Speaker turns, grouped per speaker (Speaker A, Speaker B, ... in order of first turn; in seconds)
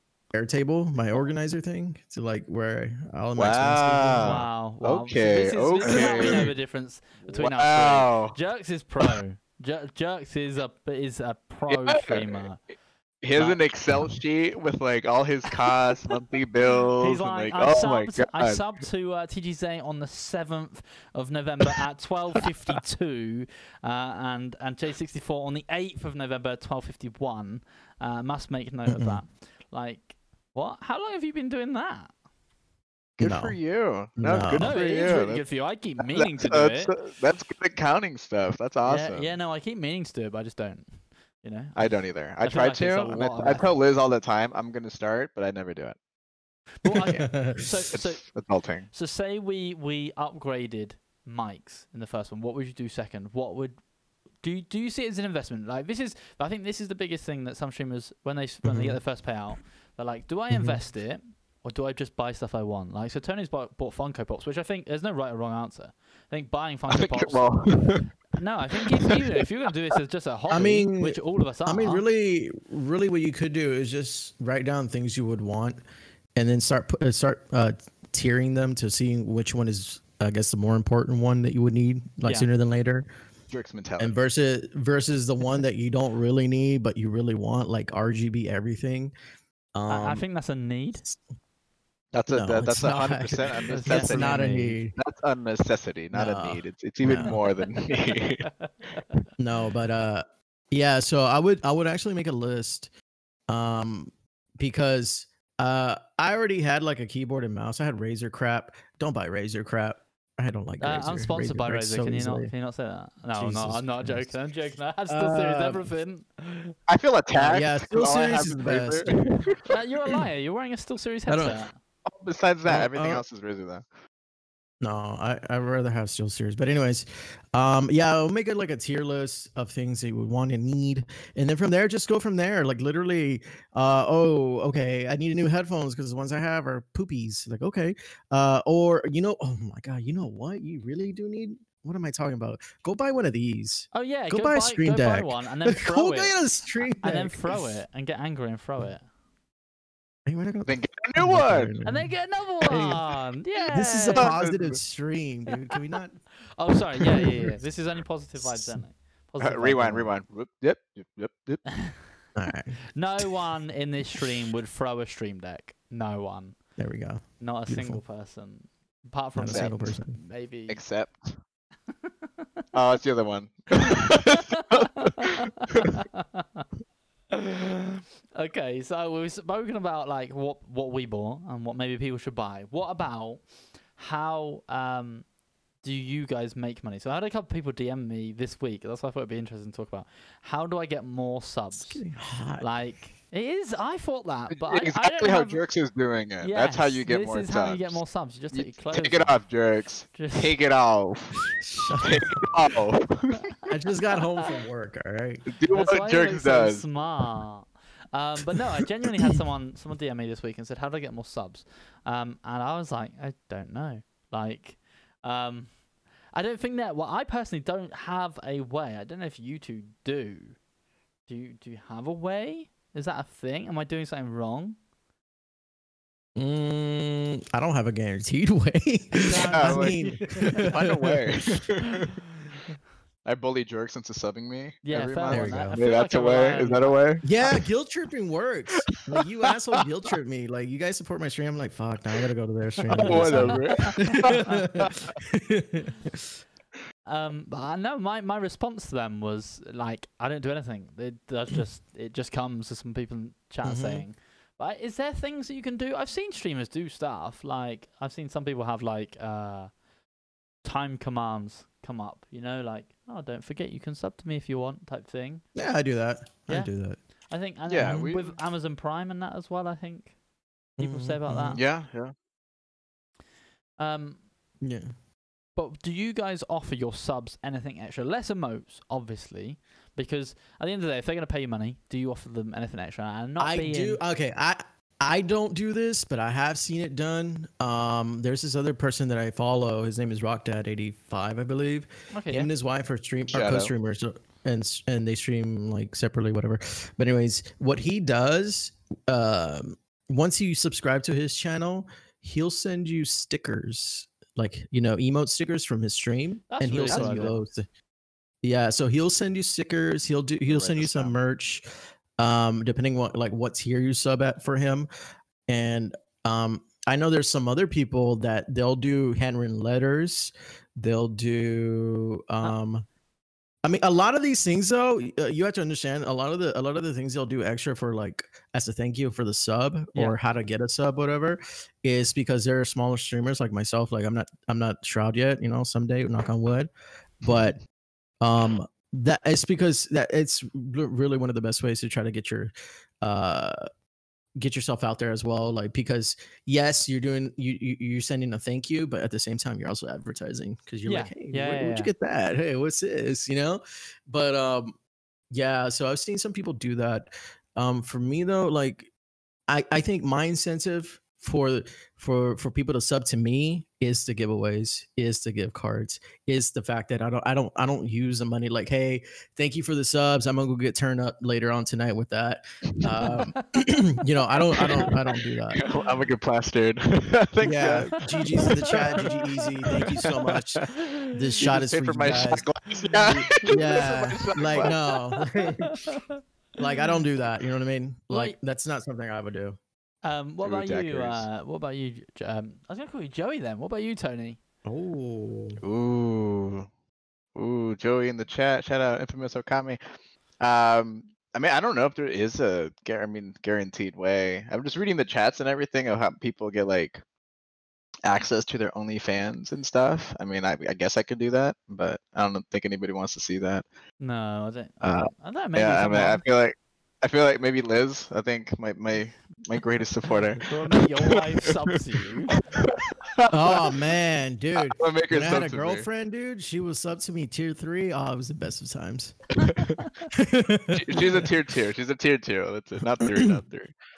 Speaker A: 0.3-4.5, 5.8-6.5, 28.9-29.2, 33.2-34.7, 47.1-47.6, 58.6-59.0, 60.5-60.8, 70.5-75.8, 76.3-83.1, 84.0-89.1, 89.7-90.2, 92.3-95.0, 96.1-97.3, 99.4-102.9, 103.5-112.5, 113.3-114.3, 115.1-115.9, 117.3-119.3, 121.3-121.6, 122.7-123.2, 124.8-147.7, 150.2-153.0, 153.7-156.2, 158.3-158.8, 162.3-163.3, 166.8-168.0, 169.3-170.2, 191.7-192.8, 201.6-202.5, 203.7-205.4, 226.3-231.6, 235.3-235.8, 237.2-246.2, 253.6-254.1, 265.5-267.2, 267.8-268.1, 270.8-271.6, 274.6-274.9, 283.4-307.7, 308.4-311.6, 312.2-314.9, 315.5-322.9, 323.6-336.7, 337.2-337.6, 338.2-343.6, 344.4-354.8, 355.3-358.9, 359.5-375.6, 377.4-382.5, 383.0-385.6, 386.6-389.6, 394.6-395.6, 423.3-429.3, 430.1-431.3, 433.0-433.4
Speaker B: 3.4-6.5, 7.3-8.4, 11.7-12.5, 13.2-18.7, 33.2-39.3, 41.8-46.0, 46.9-47.3, 47.9-48.9, 66.9-68.0, 83.5-84.2, 92.1-98.5, 116.9-119.7, 122.0-123.8, 150.7-151.8, 154.2-154.8, 159.4-161.8, 169.5-169.8, 170.7-171.4, 172.7-175.1, 194.5-201.3, 202.0-203.4, 205.5-206.8, 229.5-232.2, 233.2-237.2, 238.9-239.8, 243.0-245.2, 267.7-268.4, 271.5-272.1, 293.3-293.7, 306.8-307.2, 310.5-311.2, 372.8-373.2, 374.7-374.9, 375.5-378.5, 381.4-384.8, 390.4-391.2, 395.6-396.7, 397.4-399.8, 400.4-407.0, 408.0-413.7, 414.8-421.8, 422.6-423.8, 424.6-425.9, 430.7-433.7
Speaker C: 4.2-12.7, 13.3-13.6, 17.0-32.1, 34.5-36.9, 38.8-43.7, 46.8-72.0, 89.9-91.0, 93.7-94.8, 98.6-99.0, 110.8-116.8, 119.7-121.8, 143.9-149.1, 151.8-154.3, 156.5-160.2, 162.9-166.8, 167.4-170.8, 175.8-176.6, 177.3-177.6, 178.3-185.3, 185.8-195.6, 196.4-199.5, 200.1-200.6, 205.7-220.6, 221.2-224.8, 229.2-230.7, 234.8-237.2, 243.0-244.5, 247.1-259.7, 260.6-265.5, 266.5-266.7, 267.3-270.1, 270.8-271.6, 273.8-274.3, 275.5-284.0, 292.1-292.5, 306.5-307.4, 350.8-351.9, 373.0-373.4, 374.6-374.9, 378.4-380.1, 383.4-383.9, 388.1-388.4, 390.0-394.4, 414.0-416.2, 420.5-422.3